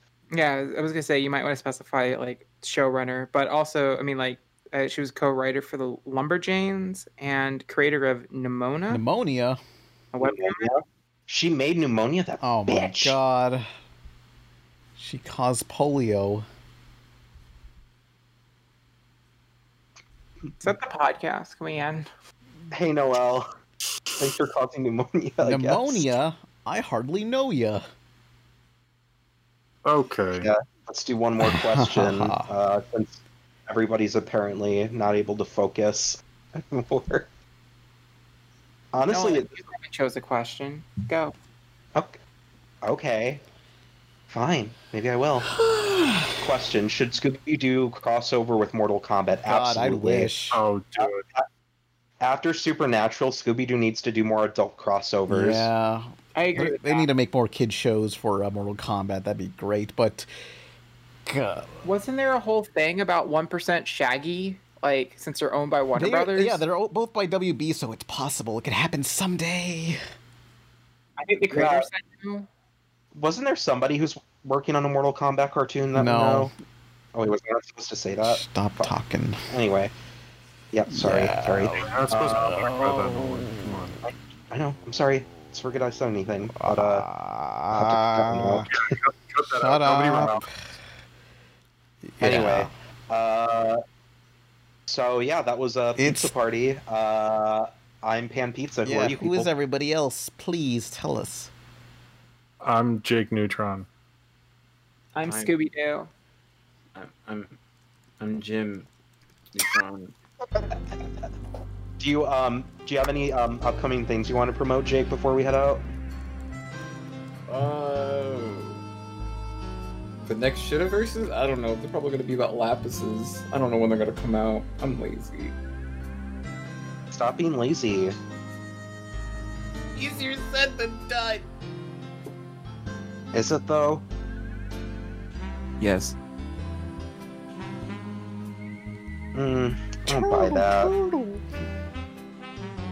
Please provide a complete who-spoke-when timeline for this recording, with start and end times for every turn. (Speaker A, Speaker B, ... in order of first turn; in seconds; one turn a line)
Speaker A: 0.3-9.0
Speaker B: 8.9-9.6
Speaker A: 10.1-10.7
Speaker C: 10.2-13.2
Speaker B: 12.4-13.7
Speaker B: 14.9-16.4
Speaker A: 20.6-22.1
Speaker C: 22.7-23.5
Speaker C: 24.2-26.1
Speaker B: 25.4-27.8
Speaker D: 29.8-30.5
Speaker C: 30.3-37.3
Speaker B: 31.4-32.5
Speaker C: 38.9-39.5
Speaker A: 39.1-41.3
Speaker C: 42.8-43.4
Speaker C: 44.3-45.5
Speaker B: 45.5-46.4
Speaker C: 46.4-50.4
Speaker B: 49.4-50.6
Speaker D: 50.5-51.2
Speaker C: 51.0-51.5
Speaker C: 52.2-55.7
Speaker B: 55.3-60.3
Speaker A: 56.3-57.1
Speaker B: 61.2-61.9
Speaker A: 61.8-66.6
Speaker B: 65.9-70.0
Speaker A: 71.2-72.5
Speaker C: 71.5-71.9
Speaker C: 73.1-76.5
Speaker B: 75.9-76.5
Speaker C: 77.1-78.9
Speaker B: 78.2-79.4
Speaker C: 79.5-79.9
Speaker C: 80.7-82.5
Speaker B: 80.9-83.8
Speaker D: 81.8-84.0
Speaker C: 84.0-87.1
Speaker B: 86.5-88.7
Speaker C: 87.7-88.9
Speaker D: 88.8-90.4
Speaker B: 89.4-90.5
Speaker C: 89.8-90.4
Speaker B: 92.1-92.7
Speaker C: 92.2-93.8
Speaker C: 94.9-99.5
Speaker B: 96.0-96.3
Speaker B: 98.8-101.5
Speaker D: 102.6-103.9
Speaker A: 105.1-106.1
Speaker E: 105.2-105.5
Speaker E: 106.9-107.6
Speaker E: 108.2-108.9
Speaker E: 109.5-110.2
Speaker C: 110.5-111.0
Speaker C: 112.0-115.8
Speaker E: 117.5-118.8
Speaker E: 120.2-125.5
Speaker C: 127.1-128.2
Speaker E: 129.9-131.5
Speaker C: 133.3-134.0
Speaker E: 135.8-136.2
Speaker C: 139.3-140.9
Speaker B: 140.1-141.5